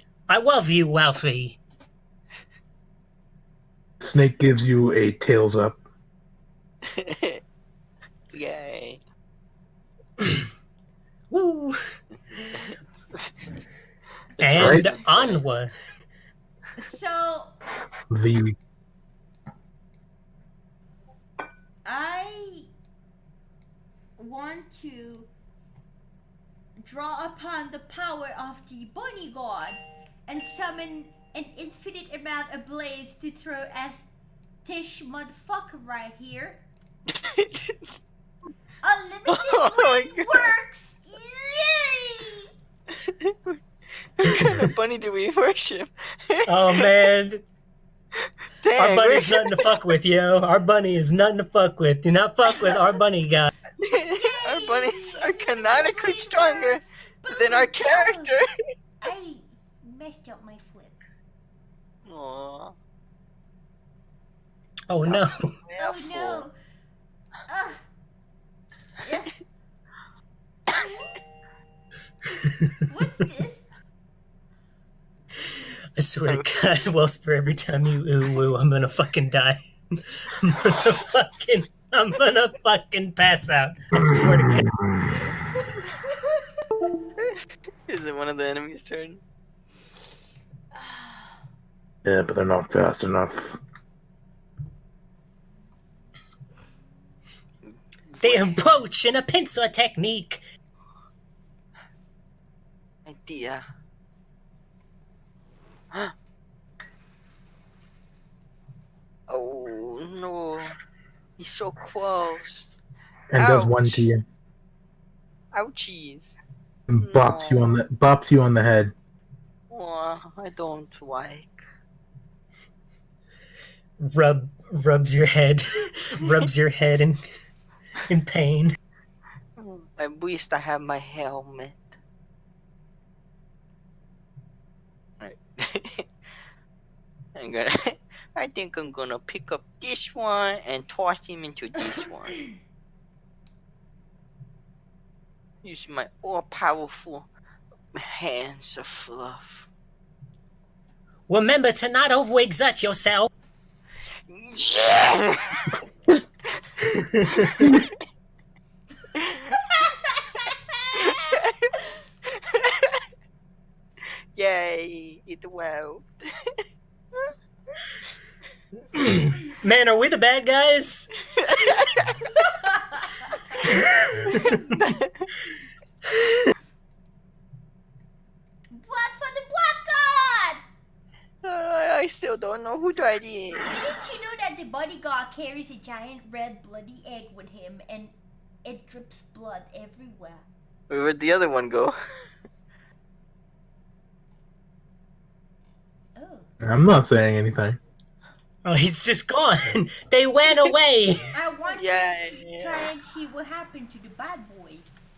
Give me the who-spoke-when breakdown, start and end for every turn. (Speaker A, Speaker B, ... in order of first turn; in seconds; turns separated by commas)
Speaker A: 0.3-1.6, Speaker B: 4.0-5.8, Speaker C: 6.9-7.4, Speaker C: 8.3-9.0, Speaker A: 11.3-11.8, Speaker C: 12.3-13.3, Speaker A: 14.4-15.7, Speaker C: 14.4-15.4, Speaker B: 14.5-14.9, Speaker D: 16.8-17.6, Speaker B: 18.1-18.6, Speaker D: 21.8-22.7, Speaker D: 24.2-25.3, Speaker D: 26.8-34.1, Speaker D: 34.6-36.6, Speaker C: 37.1-37.8, Speaker D: 38.8-42.5, Speaker C: 39.3-40.5, Speaker C: 43.0-43.6, Speaker C: 44.2-46.9, Speaker A: 46.5-47.4, Speaker C: 48.6-49.7, Speaker A: 48.8-53.5, Speaker C: 53.8-58.5, Speaker D: 54.1-58.4, Speaker D: 59.0-61.0, Speaker C: 62.0-62.8, Speaker A: 64.9-65.5, Speaker C: 65.0-66.5, Speaker D: 65.8-66.5, Speaker D: 67.5-67.8, Speaker D: 69.0-69.4, Speaker D: 72.9-73.7, Speaker A: 76.0-84.7, Speaker C: 87.9-89.2, Speaker B: 92.0-93.6, Speaker C: 97.7-98.7, Speaker A: 98.2-100.4, Speaker C: 103.1-103.6, Speaker C: 109.3-110.8, Speaker C: 111.4-112.7, Speaker B: 113.3-114.2, Speaker C: 113.3-114.1, Speaker C: 115.5-116.4, Speaker B: 116.9-118.9, Speaker C: 117.0-117.8, Speaker C: 119.7-121.5, Speaker A: 124.0-127.2, Speaker A: 128.1-128.8, Speaker C: 129.6-131.8, Speaker C: 135.2-136.1, Speaker C: 137.4-142.4, Speaker C: 145.6-147.3, Speaker C: 147.9-149.7, Speaker A: 151.3-153.3, Speaker C: 154.3-155.8, Speaker C: 157.3-158.0, Speaker C: 159.1-159.5, Speaker D: 159.5-161.2, Speaker C: 160.9-161.8, Speaker C: 162.3-163.0, Speaker C: 164.3-166.6, Speaker A: 168.9-171.1, Speaker C: 171.3-172.5, Speaker D: 172.4-173.3, Speaker D: 174.2-174.7, Speaker C: 174.3-175.3, Speaker D: 178.7-180.6, Speaker C: 181.4-183.8, Speaker D: 183.6-190.5, Speaker C: 190.9-191.9, Speaker D: 196.2-196.5, Speaker B: 196.6-197.8, Speaker A: 198.6-201.3, Speaker D: 201.3-204.9, Speaker C: 201.7-202.9